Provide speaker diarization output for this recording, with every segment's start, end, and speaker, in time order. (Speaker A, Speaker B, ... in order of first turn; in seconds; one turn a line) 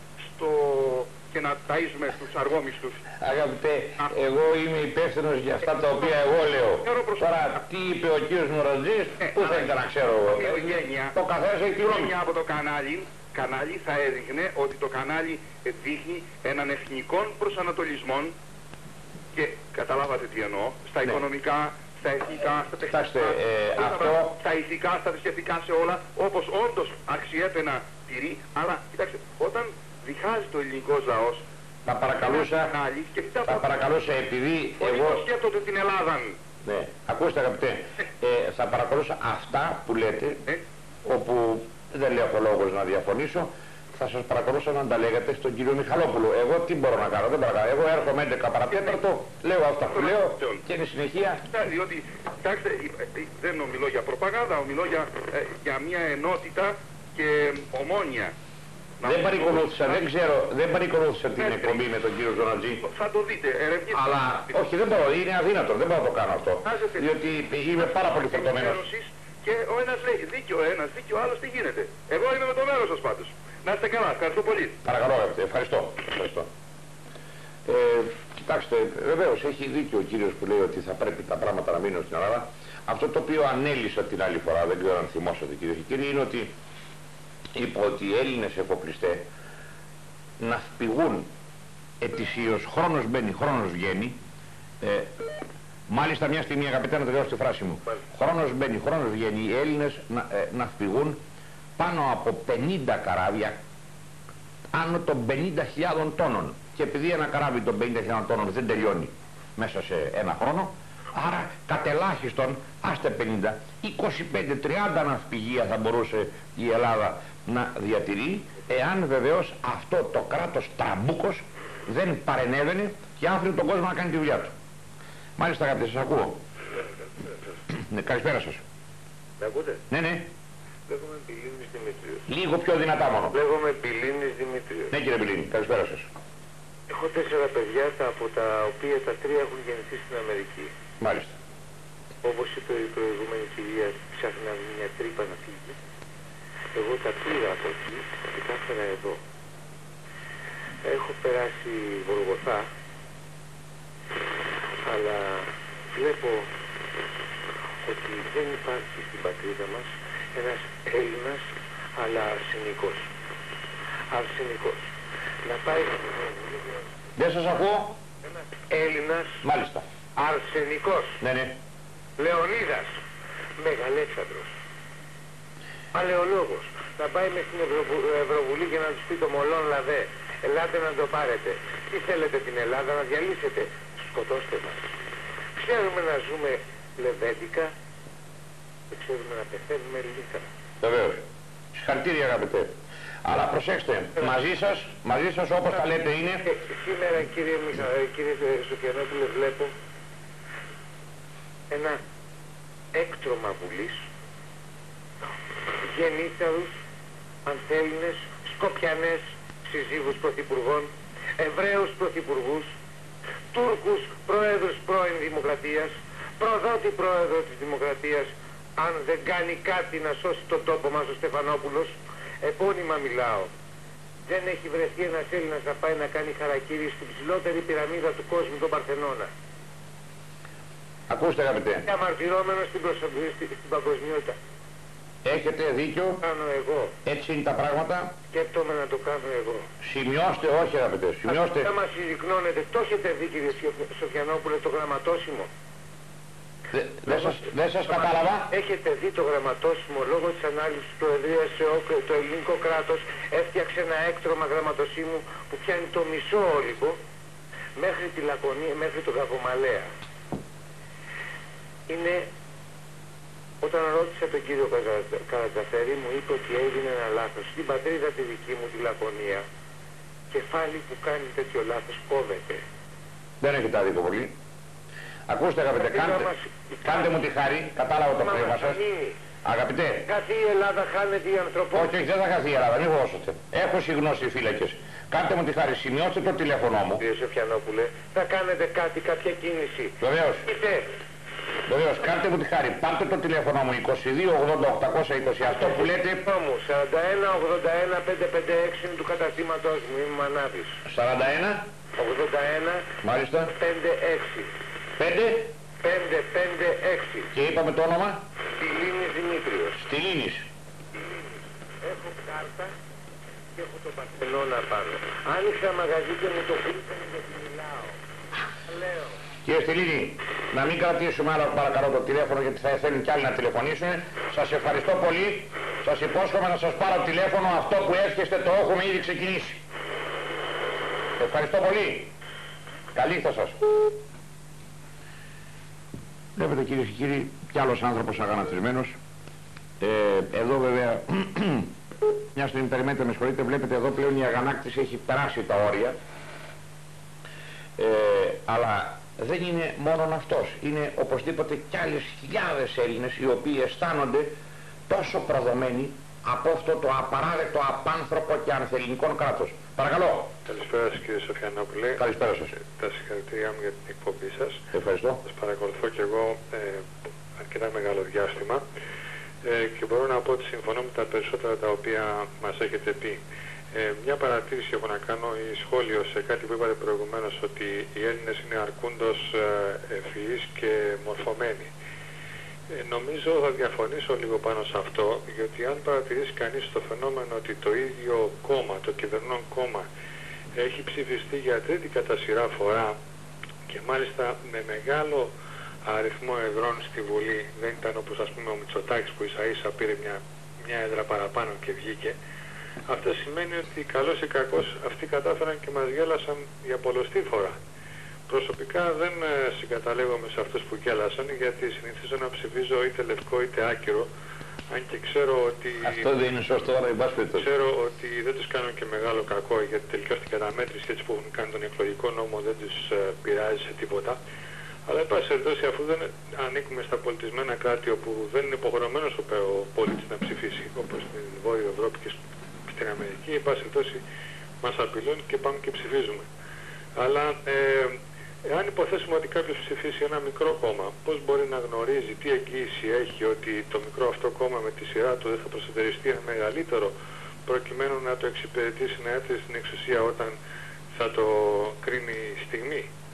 Speaker A: 0.3-3.1
Speaker B: 3.2-12.2
Speaker A: 6.8-7.6
Speaker A: 9.2-11.2
Speaker A: 11.9-18.4
Speaker A: 19.3-31.4
Speaker B: 22.9-24.4
Speaker B: 31.9-32.8
Speaker A: 32.2-33.9
Speaker B: 33.5-35.2
Speaker A: 34.8-36.4
Speaker B: 36.6-40.4
Speaker B: 41.0-51.4
Speaker A: 48.7-49.0
Speaker A: 49.9-50.6
Speaker A: 51.5-58.3
Speaker A: 59.0-60.0
Speaker B: 59.0-62.8
Speaker A: 61.4-61.9
Speaker A: 62.8-64.3
Speaker B: 63.9-68.8
Speaker A: 66.6-67.1
Speaker A: 67.8-74.8
Speaker B: 74.8-76.5
Speaker B: 77.7-86.5
Speaker B: 87.5-89.2
Speaker B: 90.4-91.3
Speaker B: 92.0-94.2
Speaker B: 94.8-95.1
Speaker B: 95.9-101.2
Speaker B: 101.8-103.6
Speaker B: 104.7-124.5
Speaker B: 125.4-126.4
Speaker B: 127.9-128.6
Speaker C: 129.4-129.8
Speaker B: 129.9-130.3
Speaker C: 130.9-132.3
Speaker B: 132.3-133.4
Speaker C: 133.3-134.9
Speaker B: 134.9-136.1
Speaker C: 136.9-140.7
Speaker B: 141.0-141.4
Speaker C: 142.2-145.8
Speaker C: 146.8-149.2
Speaker C: 150.8-152.7
Speaker C: 154.9-156.5
Speaker C: 157.8-161.4
Speaker C: 162.0-163.1
Speaker C: 164.1-164.9
Speaker C: 165.4-167.0
Speaker B: 167.2-167.9
Speaker C: 168.2-169.4
Speaker B: 169.4-169.8
Speaker C: 170.2-171.2
Speaker B: 171.2-171.6
Speaker C: 172.2-172.9
Speaker C: 173.6-174.5
Speaker C: 175.9-184.8
Speaker C: 185.6-187.7
Speaker C: 188.9-190.5
Speaker B: 190.8-191.2
Speaker B: 191.7-192.7
Speaker B: 193.2-196.4
Speaker C: 196.5-199.7
Speaker C: 201.7-202.0
Speaker C: 202.9-204.0
Speaker C: 205.9-206.7
Speaker C: 207.4-212.7
Speaker C: 213.5-223.5
Speaker C: 224.3-229.3
Speaker B: 231.1-231.9
Speaker C: 231.8-234.4
Speaker B: 235.2-236.2
Speaker C: 236.2-236.9
Speaker B: 237.1-238.1
Speaker C: 238.3-239.7
Speaker B: 239.8-241.7
Speaker C: 241.3-245.5
Speaker B: 246.7-248.5
Speaker C: 247.1-247.4
Speaker C: 247.9-257.0
Speaker C: 257.8-259.9
Speaker C: 261.9-262.3
Speaker C: 263.6-269.4
Speaker C: 270.3-272.6
Speaker B: 273.4-274.3
Speaker B: 275.3-276.3
Speaker C: 275.8-277.1
Speaker B: 276.8-278.8
Speaker C: 278.2-279.2
Speaker B: 279.4-280.1
Speaker C: 280.1-281.9
Speaker B: 281.7-287.0
Speaker C: 287.0-290.9
Speaker B: 290.0-290.5
Speaker B: 291.7-296.2
Speaker C: 295.4-300.8
Speaker B: 300.9-301.7
Speaker C: 302.0-302.9
Speaker B: 303.0-303.5
Speaker C: 303.5-304.5
Speaker B: 305.0-305.5
Speaker C: 305.8-307.3
Speaker B: 307.3-308.2
Speaker C: 308.5-309.8
Speaker B: 309.8-310.5
Speaker C: 310.9-312.7
Speaker C: 313.6-318.0
Speaker C: 318.6-319.2
Speaker B: 319.4-329.6
Speaker B: 331.2-332.1
Speaker B: 332.9-333.9
Speaker B: 336.4-338.9
Speaker B: 339.8-341.7
Speaker B: 342.4-346.0
Speaker B: 347.8-354.3
Speaker B: 354.9-360.3
Speaker D: 360.5-362.0
Speaker B: 362.0-362.6
Speaker D: 362.6-364.6
Speaker B: 364.7-365.2
Speaker D: 365.3-366.9
Speaker D: 367.4-368.6
Speaker D: 369.4-373.2
Speaker D: 373.7-381.7
Speaker D: 382.7-389.9
Speaker D: 390.6-392.9
Speaker D: 393.7-395.3
Speaker D: 395.9-402.1
Speaker D: 402.9-407.6
Speaker D: 408.3-414.1
Speaker D: 414.7-416.1
Speaker B: 415.8-417.5
Speaker D: 417.4-424.2
Speaker D: 424.9-432.2
Speaker D: 432.7-434.0
Speaker D: 434.6-436.3
Speaker D: 437.0-446.9
Speaker D: 447.5-450.4
Speaker D: 450.9-452.9